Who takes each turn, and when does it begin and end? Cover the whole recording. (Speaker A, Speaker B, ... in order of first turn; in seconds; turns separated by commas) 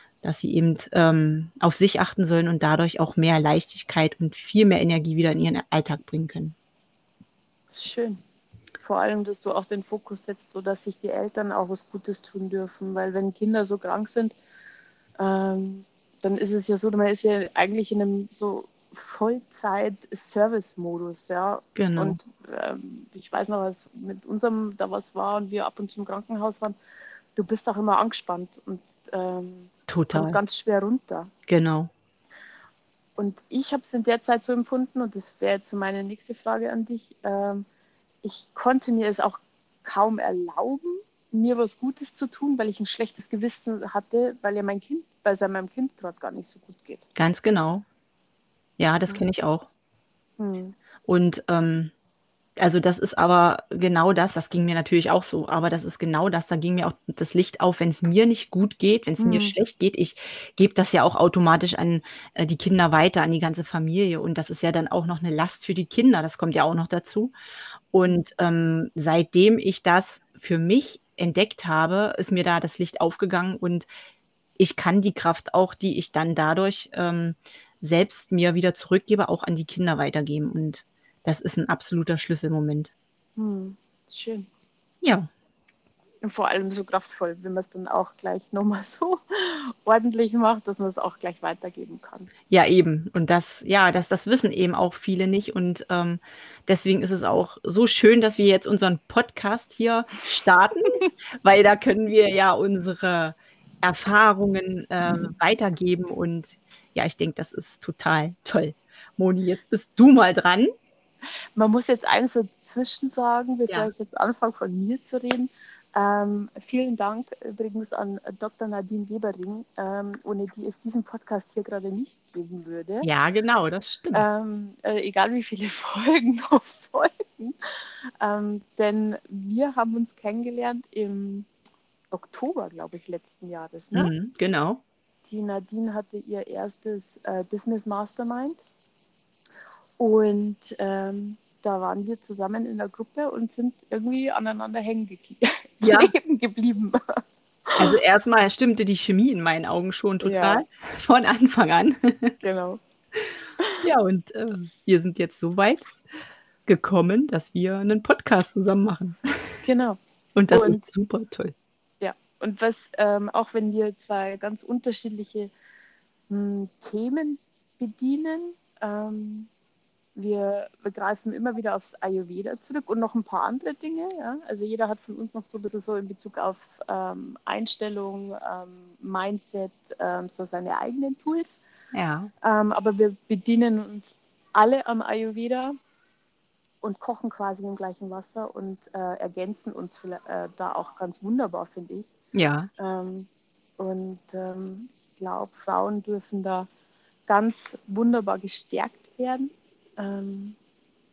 Speaker A: 0.2-6.5, Speaker B: 7.7-8.2, Speaker B: 8.8-14.3, Speaker B: 15.2-26.8, Speaker A: 21.8-22.2, Speaker B: 27.4-31.3, Speaker A: 29.9-30.4, Speaker A: 31.5-31.9, Speaker B: 33.2-37.6, Speaker B: 38.2-47.0, Speaker A: 47.1-47.8, Speaker A: 48.8-49.7, Speaker B: 50.4-50.8, Speaker A: 51.0-51.9, Speaker A: 52.6-67.3, Speaker B: 59.2-59.5, Speaker A: 67.9-73.9, Speaker A: 74.6-82.9, Speaker B: 83.4-84.5, Speaker A: 85.0-85.3, Speaker B: 86.2-92.3, Speaker A: 92.5-110.7, Speaker B: 111.5-123.1, Speaker A: 123.0-124.2, Speaker B: 124.1-131.5, Speaker B: 132.1-134.1, Speaker A: 133.9-134.8, Speaker B: 135.3-138.6, Speaker B: 140.0-147.9, Speaker A: 145.8-146.1, Speaker A: 147.8-152.3, Speaker B: 150.2-150.6, Speaker B: 152.4-152.8, Speaker B: 153.6-153.8, Speaker A: 153.8-155.9, Speaker A: 156.7-159.3, Speaker B: 159.6-160.0, Speaker A: 160.3-161.5, Speaker B: 160.5-160.8, Speaker B: 162.0-165.5, Speaker B: 166.3-169.5, Speaker B: 170.2-181.6, Speaker A: 181.9-182.3, Speaker B: 182.4-185.7, Speaker B: 186.8-192.1, Speaker A: 192.3-192.7, Speaker B: 192.8-193.3, Speaker B: 193.8-196.7, Speaker B: 197.3-200.6